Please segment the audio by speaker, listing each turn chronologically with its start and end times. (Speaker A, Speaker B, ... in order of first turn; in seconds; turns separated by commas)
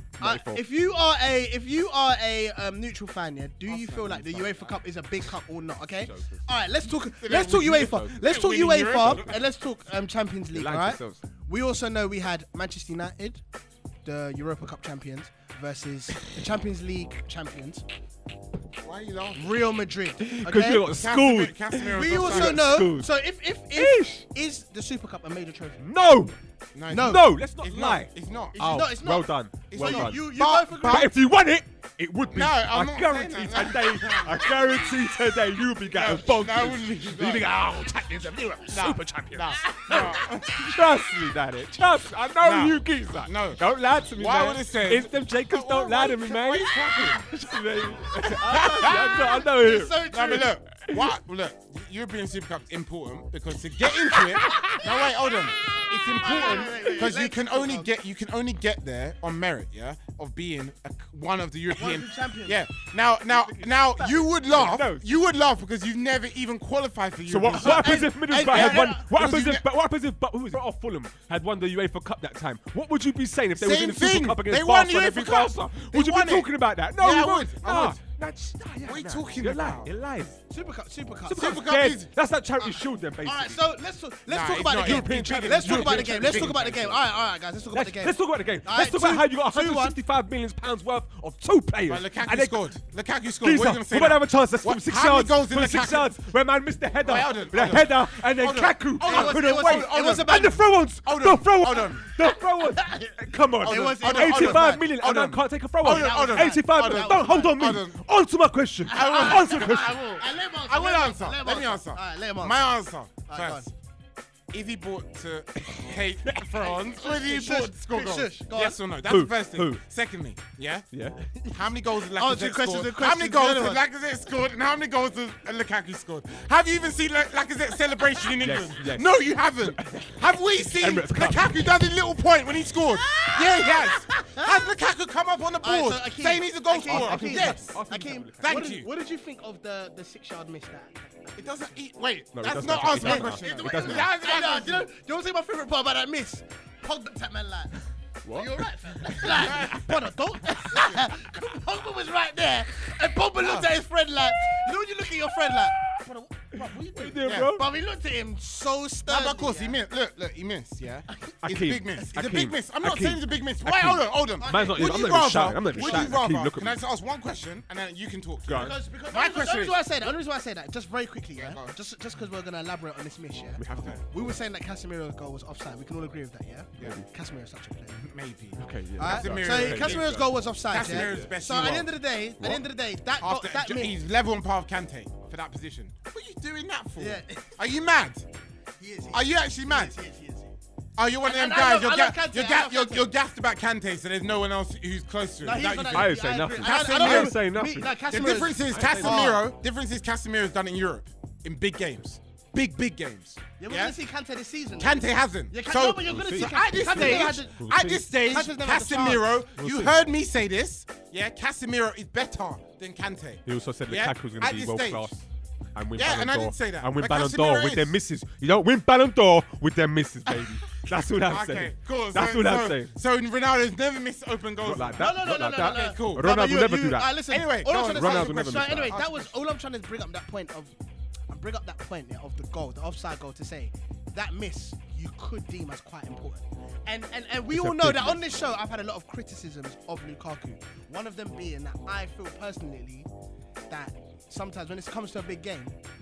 Speaker A: 0.2-0.6, Speaker B: 0.2-13.4, Speaker C: 3.7-4.8, Speaker A: 6.0-6.4, Speaker C: 7.2-9.4, Speaker A: 7.6-8.1, Speaker A: 10.5-11.2, Speaker B: 14.0-17.8, Speaker C: 18.8-19.4, Speaker B: 19.4-20.9, Speaker A: 20.2-23.1, Speaker C: 20.8-22.8, Speaker B: 21.8-25.8, Speaker A: 23.7-24.2, Speaker A: 25.8-26.3, Speaker C: 26.7-29.0, Speaker B: 26.9-27.3, Speaker A: 26.9-51.1, Speaker B: 28.6-31.1, Speaker C: 29.7-31.1, Speaker C: 32.3-34.9, Speaker C: 35.9-37.5, Speaker C: 38.7-40.7, Speaker C: 42.4-43.6, Speaker C: 44.1-47.3, Speaker C: 48.2-49.3, Speaker B: 48.5-50.5, Speaker C: 50.1-69.6, Speaker B: 54.4-54.8, Speaker B: 55.6-57.9, Speaker B: 61.8-62.6, Speaker B: 63.3-64.6, Speaker A: 64.5-65.0, Speaker A: 67.3-80.4, Speaker B: 67.5-69.1, Speaker C: 73.6-78.0, Speaker C: 78.8-79.9, Speaker B: 80.5-81.6, Speaker A: 81.3-83.6, Speaker C: 81.3-82.1, Speaker B: 82.6-90.0, Speaker C: 84.3-86.6, Speaker A: 84.8-87.0, Speaker A: 87.7-92.7, Speaker C: 91.9-96.1, Speaker A: 93.4-110.0, Speaker C: 97.0-102.1, Speaker B: 99.0-100.6, Speaker B: 102.0-104.8, Speaker C: 103.6-108.0, Speaker B: 105.8-107.6, Speaker B: 108.9-112.7, Speaker C: 108.9-113.7, Speaker B: 113.2-113.7, Speaker C: 114.5-120.9, Speaker A: 115.7-116.5, Speaker B: 116.7-118.8, Speaker A: 119.0-119.8, Speaker A: 120.9-121.2, Speaker C: 121.5-137.7, Speaker B: 122.1-123.8, Speaker A: 128.4-129.1, Speaker A: 129.6-131.6, Speaker B: 133.0-134.7, Speaker B: 135.6-141.6, Speaker A: 136.8-138.6, Speaker C: 138.4-138.9, Speaker C: 141.4-144.9, Speaker A: 142.3-144.1, Speaker B: 143.0-159.8, Speaker A: 148.2-149.6, Speaker C: 149.4-149.8, Speaker A: 154.4-154.7, Speaker A: 155.3-157.7, Speaker C: 157.2-157.5, Speaker C: 159.1-169.8, Speaker A: 161.4-166.8, Speaker B: 164.4-166.1, Speaker A: 168.5-168.8, Speaker B: 168.5-178.0, Speaker C: 171.3-171.7, Speaker A: 173.6-174.0, Speaker C: 173.7-174.0, Speaker A: 176.8-177.1, Speaker C: 178.0-181.9, Speaker A: 178.6-181.3, Speaker B: 179.0-183.9, Speaker C: 183.2-188.2, Speaker B: 187.0-187.6, Speaker B: 188.8-190.5, Speaker C: 189.1-189.9, Speaker C: 191.0-197.4, Speaker B: 191.2-193.1, Speaker B: 195.4-199.5, Speaker A: 195.6-199.4, Speaker C: 198.1-203.9, Speaker B: 203.6-209.3, Speaker C: 204.8-215.1, Speaker A: 206.0-208.0, Speaker A: 209.6-210.0, Speaker A: 213.4-215.2, Speaker A: 215.7-222.9, Speaker C: 215.9-217.9, Speaker C: 220.8-226.3, Speaker A: 224.6-227.2, Speaker B: 225.0-230.7, Speaker C: 227.3-229.3, Speaker A: 227.7-229.0, Speaker B: 231.3-243.1, Speaker A: 237.5-238.2, Speaker B: 243.7-245.7